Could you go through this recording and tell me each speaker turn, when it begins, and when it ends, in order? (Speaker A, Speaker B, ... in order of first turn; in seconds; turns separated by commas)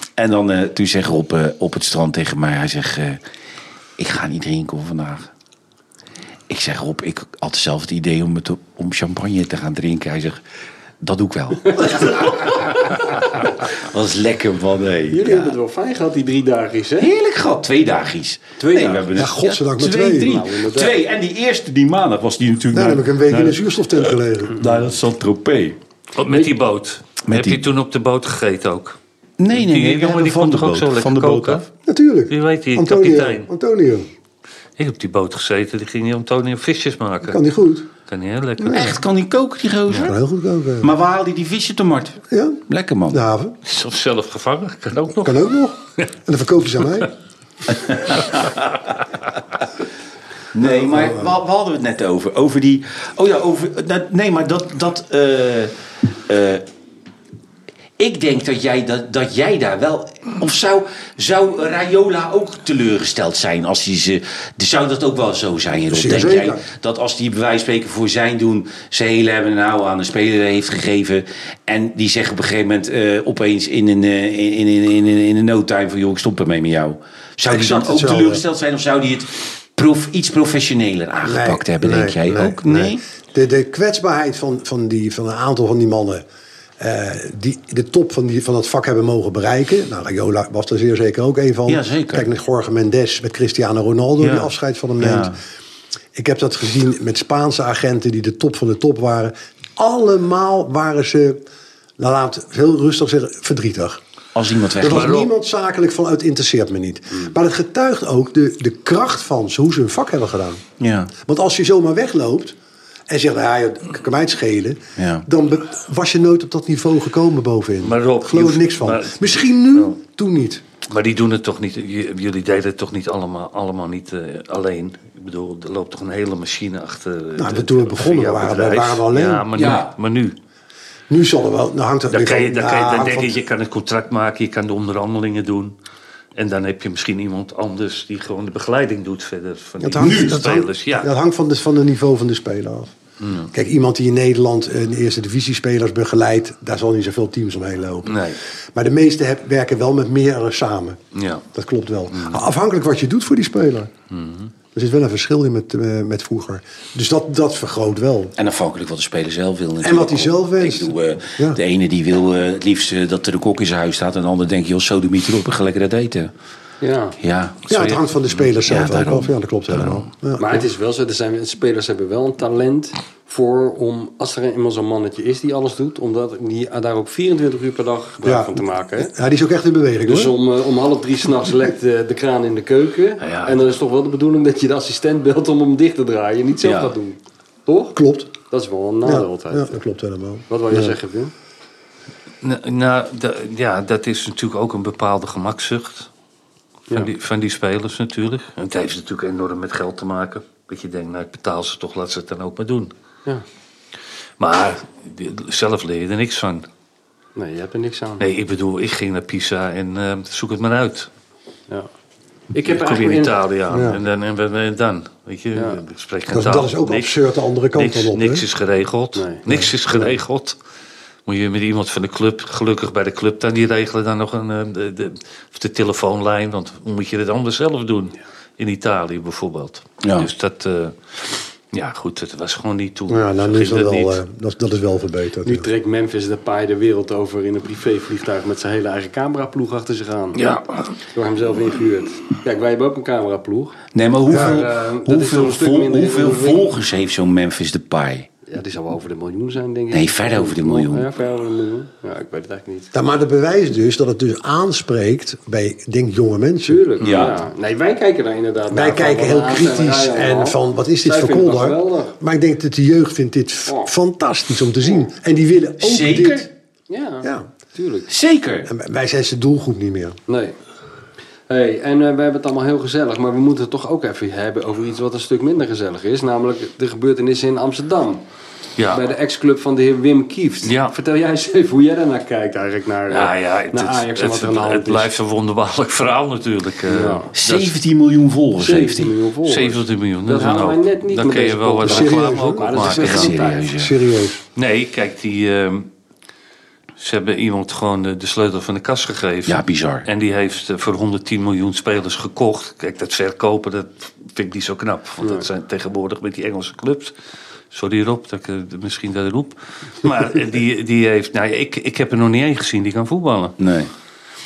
Speaker A: 0.2-3.2, Speaker A: 4.0-5.3, Speaker A: 6.5-10.4, Speaker A: 11.0-15.5, Speaker B: 15.1-17.1, Speaker A: 17.0-23.6, Speaker B: 18.6-19.1, Speaker C: 19.1-20.3, Speaker B: 20.2-21.0, Speaker C: 22.7-24.6, Speaker A: 24.5-25.8, Speaker D: 26.1-29.0, Speaker A: 27.3-27.6, Speaker A: 29.4-31.7, Speaker D: 29.5-31.6, Speaker C: 31.9-34.1, Speaker D: 32.3-33.5, Speaker D: 34.8-37.4, Speaker C: 37.2-37.9, Speaker D: 38.1-39.0, Speaker C: 38.6-38.9, Speaker A: 38.7-40.1, Speaker C: 39.9-40.9, Speaker A: 40.8-43.2, Speaker C: 42.3-43.5, Speaker D: 43.6-45.4, Speaker C: 45.1-47.1, Speaker A: 47.7-48.6, Speaker A: 50.5-55.7, Speaker C: 50.6-51.3, Speaker A: 56.3-56.6, Speaker A: 58.0-83.0, Speaker C: 65.9-66.6, Speaker C: 77.4-78.4, Speaker C: 81.2-86.2, Speaker C: 86.8-95.4, Speaker A: 91.7-92.3, Speaker A: 94.2-94.5, Speaker A: 95.0-95.4, Speaker C: 96.1-101.4, Speaker C: 102.0-104.0, Speaker A: 104.3-105.2, Speaker C: 104.8-110.6, Speaker D: 104.8-105.3, Speaker A: 110.8-111.1, Speaker C: 111.2-112.5, Speaker C: 113.1-120.6, Speaker A: 115.0-115.2, Speaker D: 117.8-120.0, Speaker D: 120.9-130.3, Speaker C: 127.4-129.5, Speaker A: 129.5-129.9, Speaker C: 131.1-133.4, Speaker D: 132.1-135.7, Speaker D: 136.3-141.1, Speaker C: 139.8-142.9, Speaker A: 140.0-140.3, Speaker D: 143.2-143.5, Speaker C: 143.5-151.0, Speaker D: 148.0-148.4, Speaker D: 151.1-151.4, Speaker C: 151.5-153.9, Speaker D: 152.1-152.4, Speaker D: 154.1-154.5, Speaker C: 154.7-158.3, Speaker A: 158.4-166.3, Speaker C: 159.8-161.6, Speaker B: 166.8-167.2, Speaker A: 167.2-167.9, Speaker C: 167.7-170.7, Speaker A: 168.6-170.0, Speaker B: 170.4-179.1, Speaker C: 178.2-180.3, Speaker B: 180.0-187.9, Speaker D: 183.2-183.6, Speaker A: 186.6-186.9, Speaker C: 187.9-188.3, Speaker B: 188.5-189.8, Speaker C: 189.0-190.9, Speaker B: 190.5-191.3, Speaker D: 192.4-196.1, Speaker D: 196.9-202.9, Speaker D: 204.4-206.7, Speaker B: 207.3-208.2, Speaker D: 208.2-211.1, Speaker B: 212.5-213.3, Speaker D: 212.6-217.1, Speaker C: 213.7-214.0, Speaker B: 215.5-215.8, Speaker C: 216.3-218.4, Speaker D: 217.7-220.6, Speaker B: 219.2-219.4, Speaker D: 221.2-234.2, Speaker A: 230.0-230.3, Speaker C: 233.1-235.7, Speaker B: 235.4-240.4, Speaker D: 240.3-240.9, Speaker B: 241.1-243.8, Speaker A: 243.9-248.3, Speaker C: 244.3-244.6, Speaker B: 244.3-246.7, Speaker B: 248.4-252.9, Speaker A: 249.9-251.1, Speaker C: 252.9-256.8, Speaker B: 256.6-262.1, Speaker A: 257.0-257.4, Speaker C: 258.7-266.5, Speaker A: 265.8-266.5, Speaker B: 266.9-268.1, Speaker C: 267.2-267.5, Speaker A: 268.1-268.7, Speaker C: 268.6-270.2, Speaker B: 270.3-270.6, Speaker B: 271.5-278.2, Speaker B: 278.9-285.1, Speaker D: 280.6-280.9, Speaker D: 283.1-287.7, Speaker B: 286.9-287.3, Speaker A: 287.3-289.1, Speaker B: 288.6-293.6, Speaker D: 289.4-293.4, Speaker C: 291.8-294.4, Speaker A: 293.0-293.9, Speaker D: 294.6-295.9, Speaker D: 297.0-307.1, Speaker A: 299.4-300.1, Speaker D: 307.7-313.6, Speaker A: 313.6-313.9